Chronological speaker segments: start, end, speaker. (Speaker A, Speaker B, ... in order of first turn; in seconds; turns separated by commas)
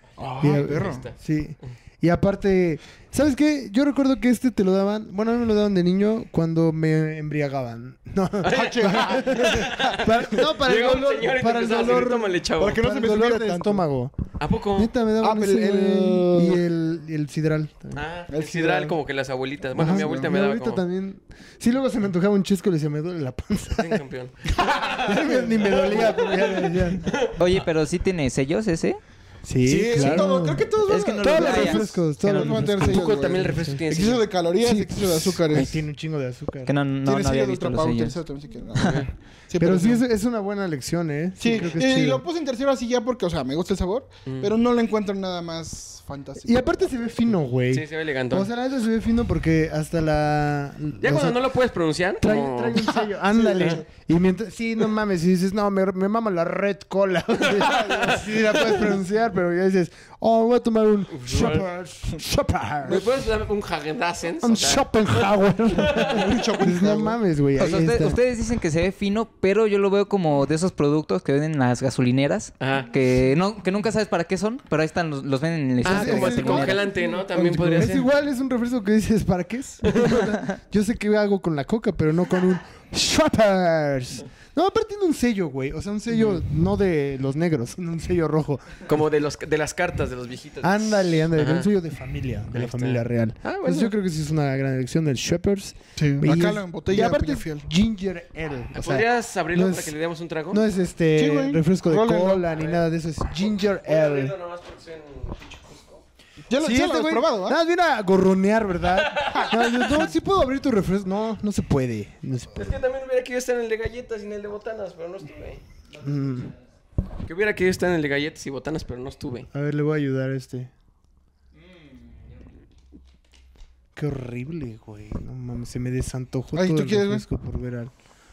Speaker A: 0.2-1.1, Speaker B: 0.4-14.1, Speaker C: 0.8-1.1, Speaker C: 8.4-12.8, Speaker A: 8.5-9.8, Speaker A: 12.6-13.8, Speaker C: 14.4-14.9, Speaker B: 14.8-18.0, Speaker A: 15.2-16.6, Speaker C: 17.9-20.8, Speaker A: 18.3-18.9, Speaker B: 19.8-24.0, Speaker A: 19.8-20.2, Speaker C: 23.8-26.5, Speaker A: 24.5-26.8, Speaker B: 25.0-27.1, Speaker C: 27.0-27.4, Speaker D: 27.4-29.0, Speaker B: 29.4-33.8, Speaker A: 29.6-35.7, Speaker D: 29.9-33.0, Speaker C: 32.9-34.2, Speaker B: 34.6-36.7, Speaker D: 36.6-38.2, Speaker A: 37.0-40.0, Speaker D: 38.8-39.0, Speaker B: 39.6-42.2, Speaker A: 41.4-46.8, Speaker C: 44.2-44.5, Speaker B: 46.4-51.5, Speaker C: 47.7-48.5, Speaker C: 51.0-53.8, Speaker B: 52.2-63.0, Speaker A: 53.3-53.8, Speaker C: 57.4-58.9, Speaker C: 61.1-61.7, Speaker C: 62.8-64.9, Speaker B: 64.4-68.2, Speaker C: 65.7-66.2, Speaker A: 65.9-67.2, Speaker D: 67.6-76.8, Speaker C: 72.6-72.9, Speaker C: 75.8-78.0, Speaker B: 75.8-88.8, Speaker C: 79.8-80.2, Speaker C: 88.9-91.7, Speaker B: 90.6-99.9, Speaker C: 92.5-93.9, Speaker A: 96.0-97.7, Speaker C: 98.8-100.6, Speaker B: 100.5-104.3, Speaker A: 101.1-102.5, Speaker C: 102.5-106.0, Speaker A: 106.5-107.6, Speaker B: 106.6-112.8, Speaker C: 109.1-110.0, Speaker C: 112.5-115.6, Speaker B: 116.0-116.5, Speaker C: 117.2-119.5, Speaker B: 119.5-120.7, Speaker B: 124.0-127.9, Speaker A: 126.5-127.2